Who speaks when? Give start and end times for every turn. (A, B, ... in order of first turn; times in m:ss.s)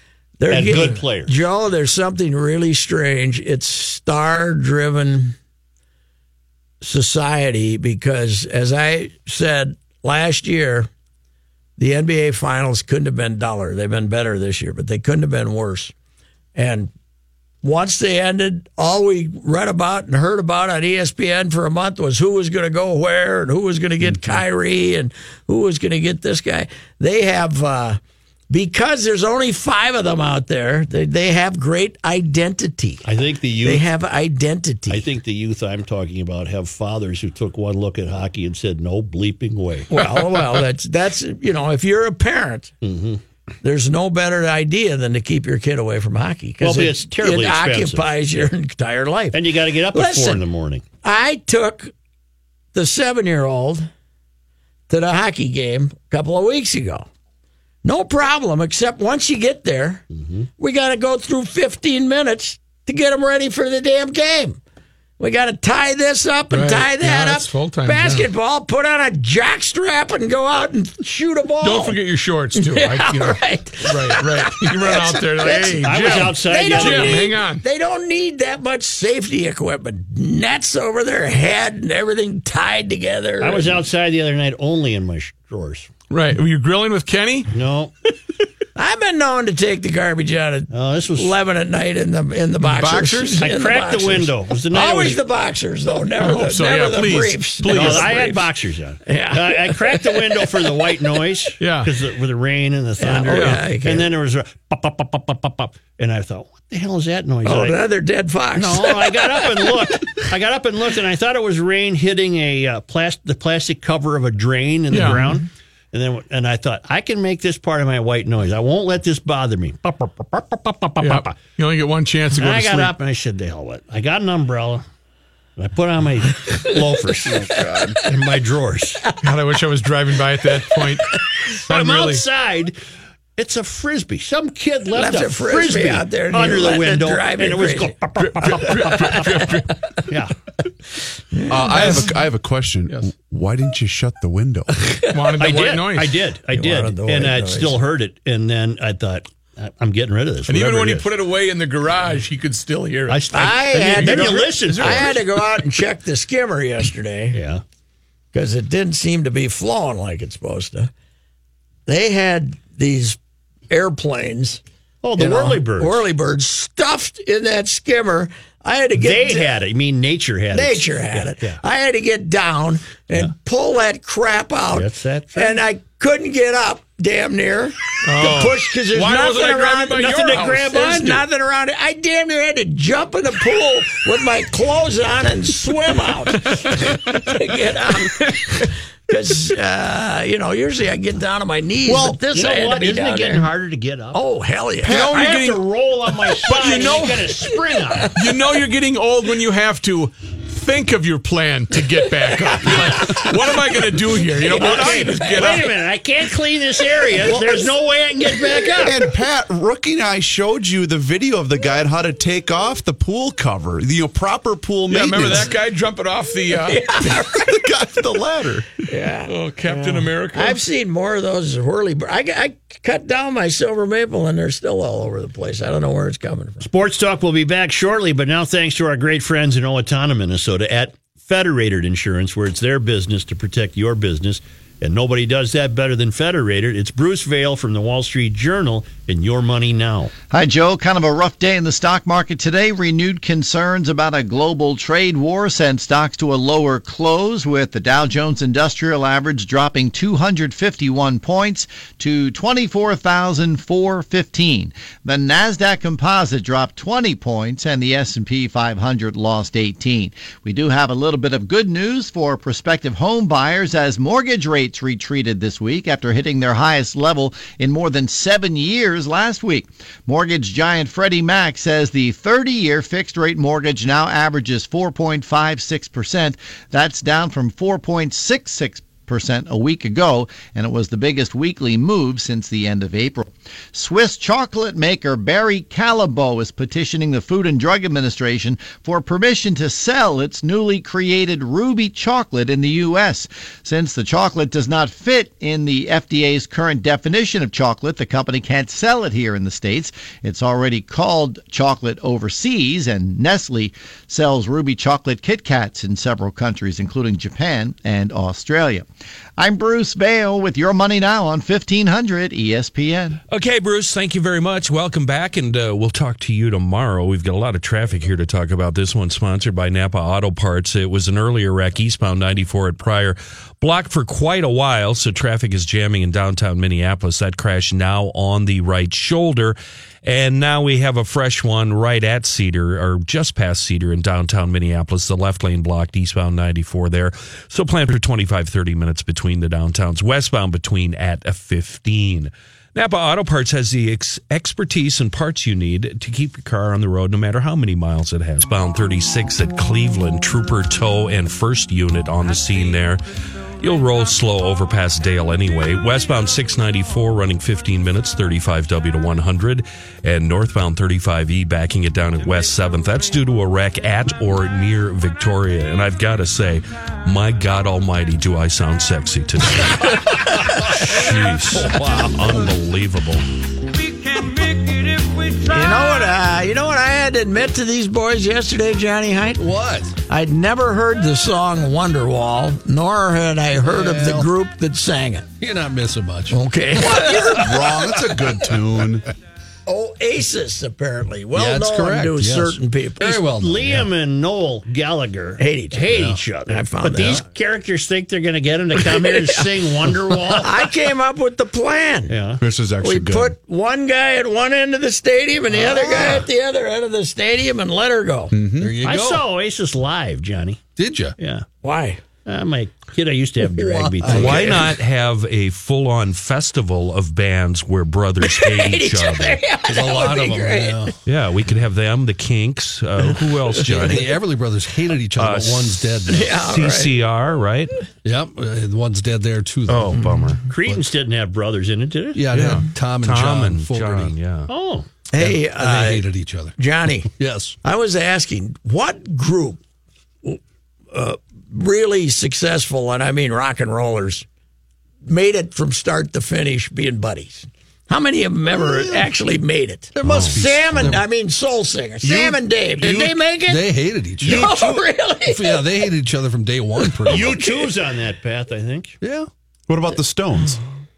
0:00.4-0:05.4 A
0:00.5-0:01.4 B
0:06.8-0:10.9 A
0:11.8-0:15.9 A
0:16.5-0:16.9 A
0:17.6-0:33.1 A
0:33.0-0:33.8 B
0:33.6-0:35.1 A
0:34.9-0:40.0 B
0:39.9-0:42.7 A
0:42.8-0:43.2 B
0:43.6-0:50.4 A
0:46.6-0:48.5 B
0:49.3-0:50.8 B
0:51.0-0:51.9 A
0:52.7-0:53.9 A
0:54.9-0:57.1 A
0:57.8-1:00.0 A
1:00.1-1:00.5 B
1:00.6-1:04.6 A
1:05.2-1:12.0 A
1:06.5-1:08.3 C
1:11.6-1:17.6 C
1:12.5-1:23.8 A
1:15.7-1:17.3 B
1:23.4-1:25.9 B
1:26.1-1:27.5 C
1:27.5-1:27.9 B
1:28.8-1:38.5 A
1:30.7-1:31.3 B
1:33.4-1:35.2 B
1:36.2-1:38.1 C
1:37.7-1:47.8 B
1:39.0-1:40.4 A
1:41.6-1:41.9 C
1:43.0-1:44.1 A
1:43.3-1:43.6 C
1:47.4-1:49.9 A
1:48.5-2:01.4 B
1:54.9-1:55.4 C
2:01.0-2:02.9 C
2:02.4-2:04.8 B
2:05.6-2:09.1 B
2:07.4-2:08.0 D
2:07.6-2:08.0 A
2:09.2-2:12.2 C
2:11.7-2:12.8 B
2:13.4-2:19.4 B
2:14.9-2:19.6 A
2:18.2-2:19.8 C
2:20.1-2:20.3 B
2:21.3-2:22.1 A
2:21.5-2:24.7 D
2:21.7-2:22.1 C
2:24.8-2:25.3 A
2:25.1-2:26.2 C
2:25.4-2:31.1 B
2:26.5-2:27.8 A
2:30.5-2:33.3 C
2:33.1-2:35.2 B
2:33.3-2:37.4 A
2:33.8-2:35.0 C
2:37.3-2:37.6 B
2:38.3-2:40.9 A
2:41.9-2:43.2 A
2:43.7-2:44.6 A
2:45.0-2:46.0 B
2:45.2-2:49.5 A
2:49.0-2:51.6 B
2:50.5-3:13.5 A
2:54.7-2:55.6 B
2:58.0-3:00.8 C
3:00.0-3:01.2 B
3:11.9-3:14.2 B
3:14.1-3:15.2 A
3:14.8-3:15.6 C
3:14.8-3:18.1 B
3:16.4-3:17.3 C
3:18.1-3:25.7 C
3:22.6-3:23.3 A
3:24.4-3:25.6 A
3:24.5-3:29.0 B
3:27.3-3:27.6 A
3:28.8-3:35.5 D
3:34.9-3:36.9 C
3:36.7-3:37.6 A
3:37.2-3:38.7 D
3:38.9-3:46.6 A
3:39.2-3:40.6 C
3:46.6-4:00.1 B
4:00.3-5:08.9 E
5:09.4-5:13.2 E
5:13.3-5:53.0 F
5:53.6-6:13.2 F
6:15.4-6:19.5 A
6:19.4-6:20.0 G
6:20.0-6:25.3 A
6:23.6-6:24.3 G
6:25.4-6:27.4 G
6:26.3-6:28.0 A
6:26.8-6:29.0 D
6:28.1-6:28.5 G
6:29.6-6:33.2 A
6:31.3-6:33.9 G
6:33.2-6:40.6 B
6:35.4-6:37.2 A
6:35.9-6:36.2 G
6:38.8-6:39.5 A
6:40.3-6:42.1 A
6:42.1-6:42.4 B
6:42.4-6:43.3 D
6:42.8-6:48.3 A
6:45.6-6:46.2 B
6:48.3-6:48.7 D
6:48.6-6:49.2 G
6:48.8-6:50.6 B
6:50.8-6:51.2 G
6:51.2-6:51.4 B
6:51.6-6:52.0 A
6:52.2-6:54.6 B
6:53.6-6:54.6 G
6:54.0-6:59.4 F
6:58.2-7:00.9 A
6:59.6-7:01.0 G
7:01.0-7:04.1 F
7:03.6-7:06.3 G
7:03.7-7:04.1 A
7:05.2-7:07.8 F
7:06.1-7:07.0 A
7:08.0-7:10.9 G
7:09.7-7:10.4 F
7:10.4-7:12.2 B
7:12.1-7:14.1 G
7:12.3-7:14.5 F
7:14.5-7:14.8 B
7:15.1-7:17.1 A
7:15.2-7:16.6 G
7:17.1-7:17.6 G
7:17.6-7:19.6 A
7:20.9-7:24.2 A
7:25.0-7:35.9 A
7:28.7-7:29.0 G
7:29.9-7:31.0 G
7:30.0-7:30.5 F
7:32.0-7:33.2 B
7:33.4-7:34.6 G
7:34.2-7:34.8 B
7:35.2-7:37.4 G
7:36.8-7:37.7 A
7:37.0-7:39.0 B
7:39.0-7:39.3 G
7:39.7-7:40.6 D